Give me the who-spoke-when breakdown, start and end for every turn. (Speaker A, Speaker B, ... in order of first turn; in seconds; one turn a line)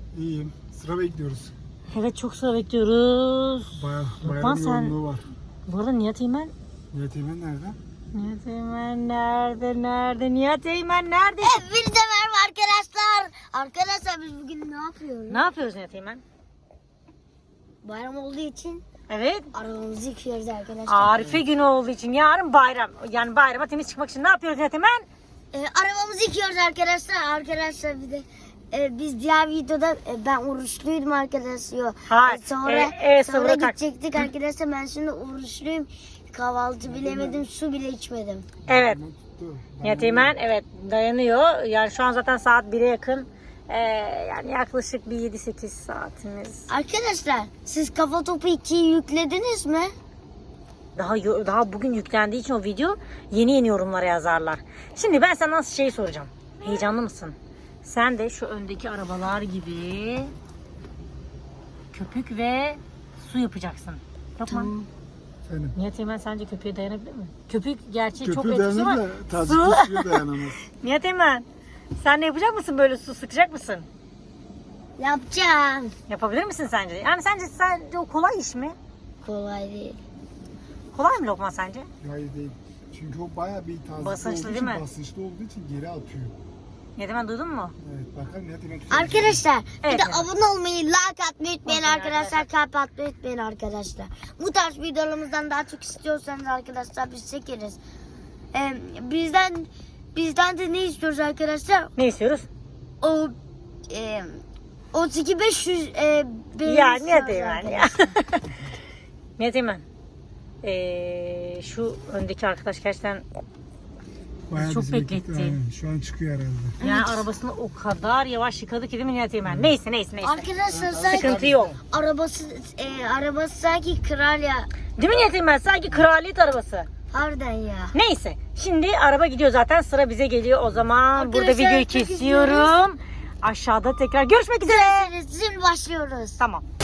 Speaker A: 0.1-1.5
Speaker B: 1.9-5.0
Speaker A: 3.8-5.2
Speaker B: 5.7-6.5
Speaker A: 6.9-7.8
Speaker B: 8.1-11.6
Speaker C: 11.4-15.4
Speaker B: 15.3-16.2
Speaker C: 17.8-18.8
Speaker B: 19.1-19.5
Speaker C: 19.5-21.4
Speaker B: 20.9-25.1
Speaker C: 25.5-38.5
Speaker B: 32.1-34.2
Speaker A: 37.0-37.4
Speaker B: 38.7-39.0
Speaker A: 38.7-40.3
Speaker B: 39.8-46.7
Speaker C: 46.7-49.9
Speaker B: 51.0-60.3
Speaker B: 61.9-64.7
Speaker A: 64.5-64.9
Speaker A: 65.5-65.7
Speaker B: 65.8-73.9
Speaker A: 68.2-70.6
Speaker C: 75.0-75.9
Speaker B: 76.1-78.8
Speaker C: 79.2-80.0
Speaker B: 80.9-81.9
Speaker A: 82.0-86.4
Speaker B: 84.0-84.8
Speaker B: 87.0-87.8
Speaker A: 87.8-89.4
Speaker C: 88.9-97.8
Speaker B: 89.8-90.3
Speaker B: 91.7-92.5
Speaker C: 98.5-101.9
Speaker B: 102.0-102.5
Speaker C: 103.0-103.3
Speaker C: 103.9-104.3
Speaker C: 104.9-108.1
Speaker B: 106.7-108.5
Speaker B: 109.4-109.8
Speaker B: 110.6-113.2
Speaker A: 114.5-116.8
Speaker B: 114.5-115.6
Speaker C: 116.8-117.3
Speaker B: 116.8-120.5
Speaker C: 120.2-124.7
Speaker A: 120.8-121.7
Speaker B: 121.1-121.8
Speaker B: 125.0-126.9
Speaker C: 127.1-127.9
Speaker B: 127.9-135.1
Speaker C: 131.1-132.8
Speaker C: 134.7-136.4
Speaker B: 136.4-136.6